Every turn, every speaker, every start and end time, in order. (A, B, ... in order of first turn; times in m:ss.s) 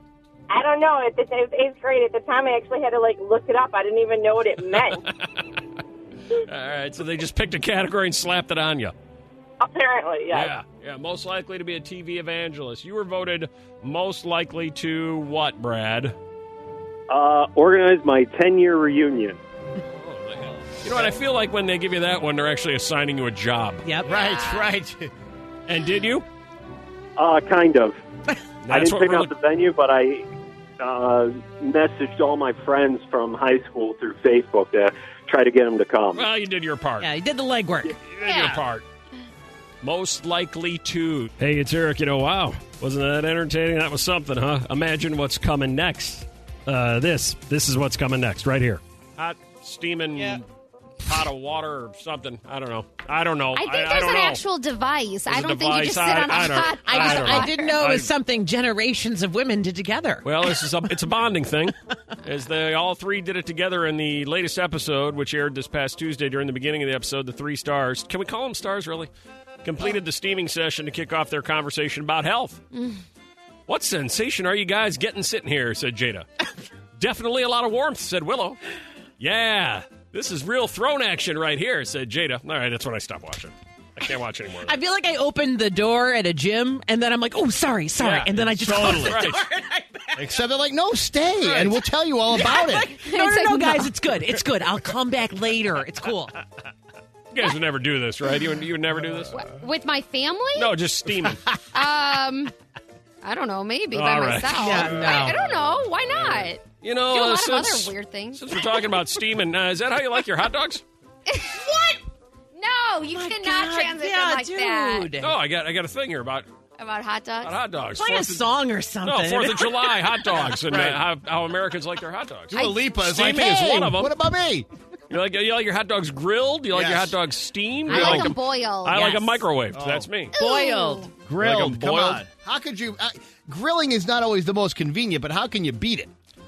0:00.5-0:05.0 A
0:04.7-0:05.6 B
0:06.3-0:08.9 B
0:09.6-0:10.6 A
0:10.3-0:16.2 B
0:17.1-0:19.4 C
0:19.8-0:23.8 B
0:23.8-0:24.1 D
0:24.0-0:24.7 E
0:24.0-0:25.1 F
0:25.7-0:26.2 B
0:27.2-0:28.0 C
0:28.6-0:29.3 B
0:28.7-0:30.3 C
0:30.8-0:36.3 C
0:36.1-0:37.1 B
0:37.0-0:38.0 D
0:38.0-0:38.8 B
0:38.2-0:38.6 E
0:38.3-0:38.6 F
0:39.8-0:50.4 B
0:50.1-0:50.4 D
0:51.0-0:54.4 B
0:53.5-0:57.8 E
0:55.3-0:58.1 B
0:56.8-1:00.5 D
1:00.2-1:09.1 B
1:09.6-1:12.6 B
1:12.7-1:13.0 E
1:13.7-1:16.2 B
1:17.0-1:18.6 B
1:19.2-1:24.8 B
1:24.6-1:30.3 D
1:28.0-1:29.4 B
1:28.6-1:29.1 F
1:30.2-1:32.9 F
1:31.4-1:31.8 B
1:32.3-1:36.3 D
1:33.0-1:33.9 E
1:37.3-1:39.4 B
1:39.3-1:40.7 E
1:40.6-1:41.4 B
1:41.3-1:41.6 F
1:41.7-1:42.5 E
1:43.2-1:48.8 E
1:43.9-1:45.0 B
1:44.5-1:45.4 D
1:46.1-1:50.8 B
1:51.3-1:51.6 E
1:51.6-1:52.0 D
1:52.5-1:55.1 E
1:53.1-1:55.3 D
1:55.2-1:56.5 B
1:56.8-1:57.5 E
1:57.4-1:58.5 B
1:57.9-1:59.9 D
1:59.0-2:04.1 B
2:00.6-2:01.0 F
2:02.5-2:04.6 F
2:02.5-2:02.9 E
2:05.1-2:10.3 B
2:06.7-2:07.1 F
2:07.9-2:09.4 E
2:07.9-2:08.3 F
2:09.7-2:10.1 F
2:10.3-2:11.1 E
2:10.3-2:11.1 D
2:11.2-2:16.1 F
2:11.4-2:12.2 B